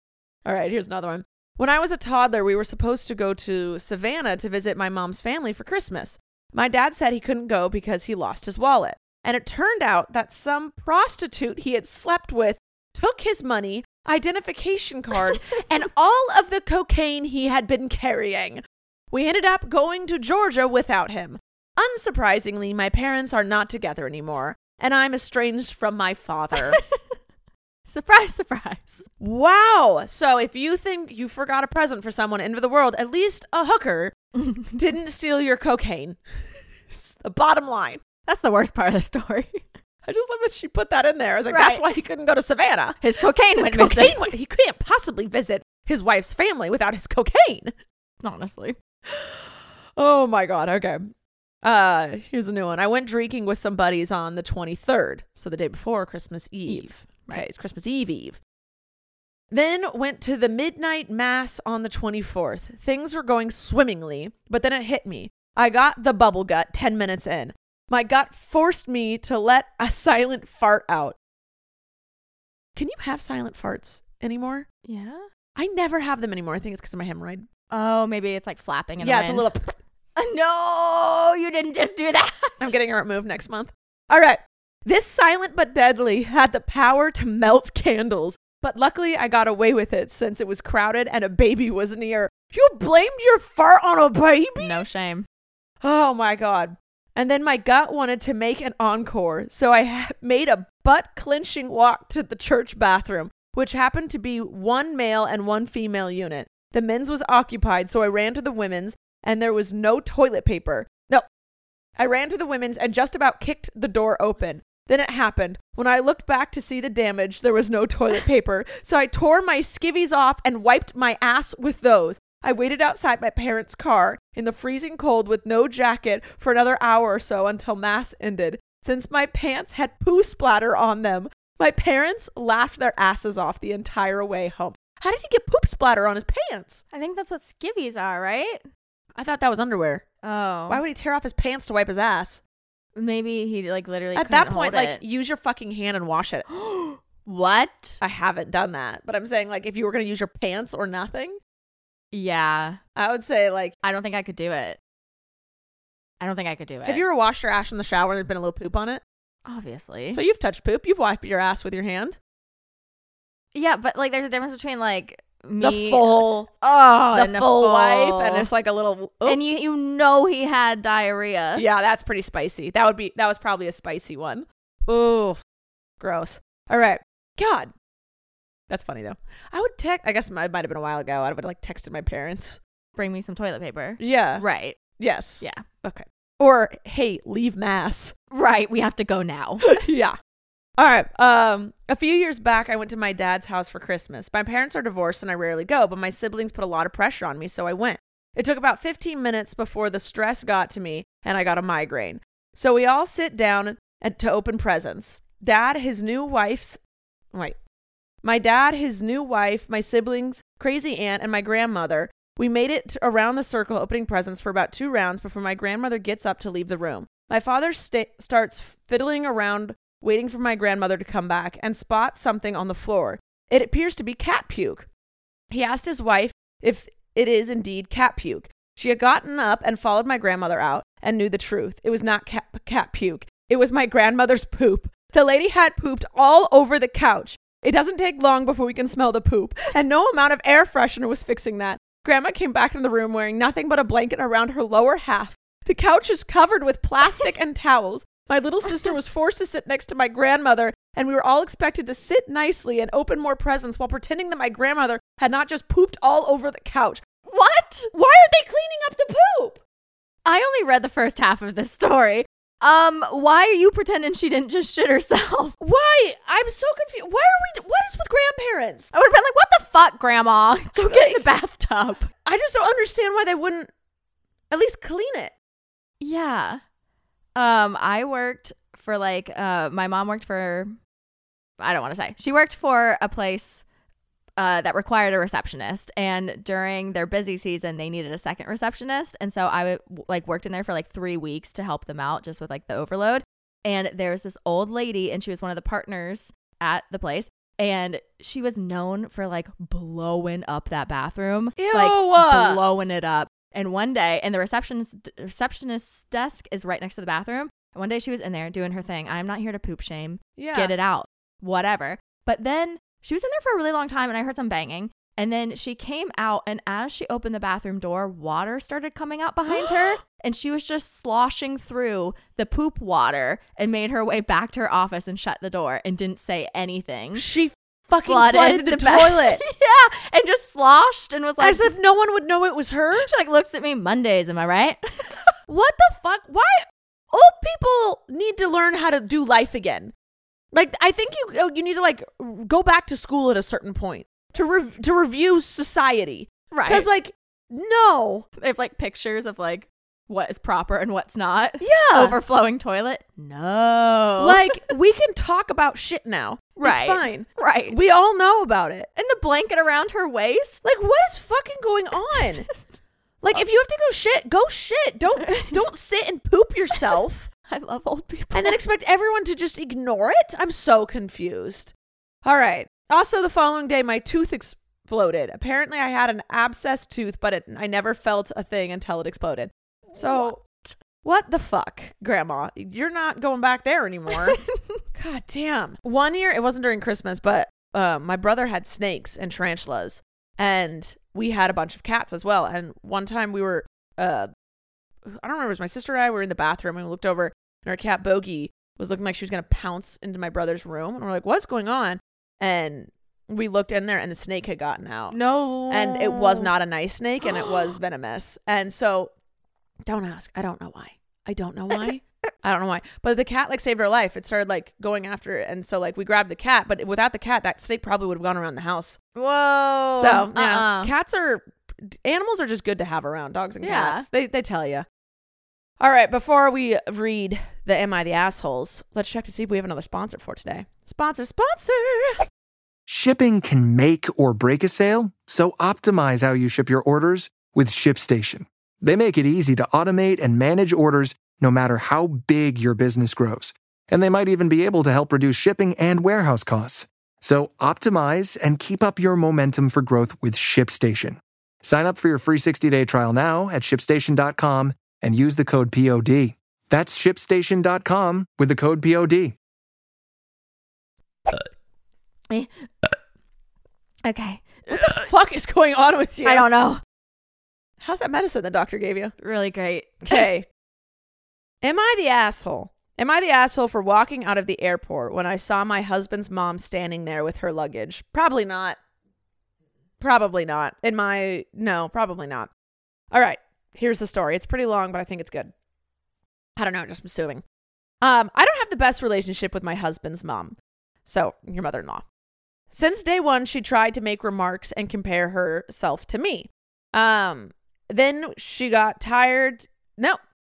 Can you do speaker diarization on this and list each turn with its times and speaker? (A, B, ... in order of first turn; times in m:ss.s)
0:00.4-0:26.8 A
0:26.5-0:27.2 B
0:27.9-0:29.0 B
0:29.2-0:34.2 A
0:34.4-0:34.7 B
0:34.7-0:36.2 A
0:36.9-0:38.0 A
0:38.3-0:39.6 B
0:40.0-0:43.0 A
0:41.5-0:41.9 B
0:43.0-0:44.3 B
0:43.6-0:47.7 A
0:48.2-0:48.8 B
0:49.1-0:49.4 A
0:50.0-0:51.1 A
0:51.6-0:58.4 A
0:56.7-0:57.4 B
0:59.5-1:11.2 A
1:12.8-1:14.7 A
1:14.8-1:15.2 B
1:15.6-1:17.4 A
1:17.7-1:19.5 B
1:19.0-1:19.7 A
1:20.2-1:22.7 B
1:22.6-1:34.8 A
1:34.6-1:35.2 B
1:35.8-1:51.2 A
1:52.0-2:16.8 A
2:16.9-2:18.6 B
2:19.1-2:20.0 A
2:20.2-2:20.8 B
2:20.7-2:22.4 A
2:23.0-2:25.0 B
2:24.2-2:26.4 A
2:26.5-2:28.0 B
2:28.0-2:31.4 A
2:32.1-2:32.8 B
2:33.0-2:33.8 A
2:33.8-2:34.8 B
2:36.2-2:37.0 B
2:36.8-2:39.0 A
2:39.4-2:40.2 B
2:40.1-2:42.2 A
2:43.5-2:48.5 B
2:45.6-2:46.5 A
2:47.1-2:49.4 A
2:49.2-2:51.6 B
2:51.6-2:55.4 A
2:56.0-2:57.7 A
2:58.7-3:02.6 A
3:03.0-3:04.8 B
3:04.0-3:04.4 A
3:05.0-3:08.1 A
3:08.3-3:09.8 B
3:09.6-3:10.2 A
3:10.8-3:26.8 A
3:28.2-3:44.9 A
3:45.5-4:17.0 A
4:17.3-4:17.9 B
4:17.9-4:19.6 A
4:20.2-4:25.5 B
4:25.6-4:28.9 A
4:28.9-4:32.1 B
4:30.8-4:31.2 A
4:32.2-4:33.7 A
4:34.5-4:35.3 A
4:36.0-4:36.6 B
4:37.4-4:40.7 B
4:41.6-4:43.6 B
4:44.4-5:27.2 B
5:01.6-5:02.6 A
5:10.4-5:10.7 A
5:19.5-5:19.9 A
5:27.2-5:29.4 A
5:28.0-5:31.7 B
5:31.4-5:33.1 A
5:32.9-5:35.2 B
5:35.5-5:39.9 A
5:40.5-5:48.2 A
5:46.5-5:46.9 B
5:48.4-5:54.6 B
5:51.6-5:52.2 A
5:54.2-5:58.9 A
5:56.6-5:57.8 B
5:59.0-6:00.6 B
6:00.6-6:02.4 A
6:03.2-6:07.3 A
6:05.2-6:05.6 B
6:07.5-6:08.6 B
6:08.3-6:11.7 A
6:12.2-6:20.4 A
6:19.9-6:20.7 B
6:21.0-6:24.4 A
6:24.1-6:24.8 B
6:24.9-6:34.3 A
6:35.0-6:45.2 A
6:45.1-6:46.5 B
6:45.7-6:49.1 A
6:47.3-6:47.6 B
6:49.9-6:59.0 A
6:59.2-7:00.9 B
6:59.9-7:04.8 A
7:03.6-7:04.0 B
7:05.8-7:12.2 A
7:12.9-7:39.3 C
7:42.3-7:42.7 B
7:44.0-7:45.1 B
7:44.7-7:46.4 A
7:46.2-7:46.8 B
7:47.8-7:49.1 A
7:49.2-7:50.2 B
7:50.0-7:50.4 A
7:51.6-7:58.8 A
8:00.0-8:02.5 A
8:03.1-8:05.5 A
8:06.6-8:07.4 A
8:08.0-8:10.5 A
8:11.0-8:12.0 A
8:12.7-8:20.2 A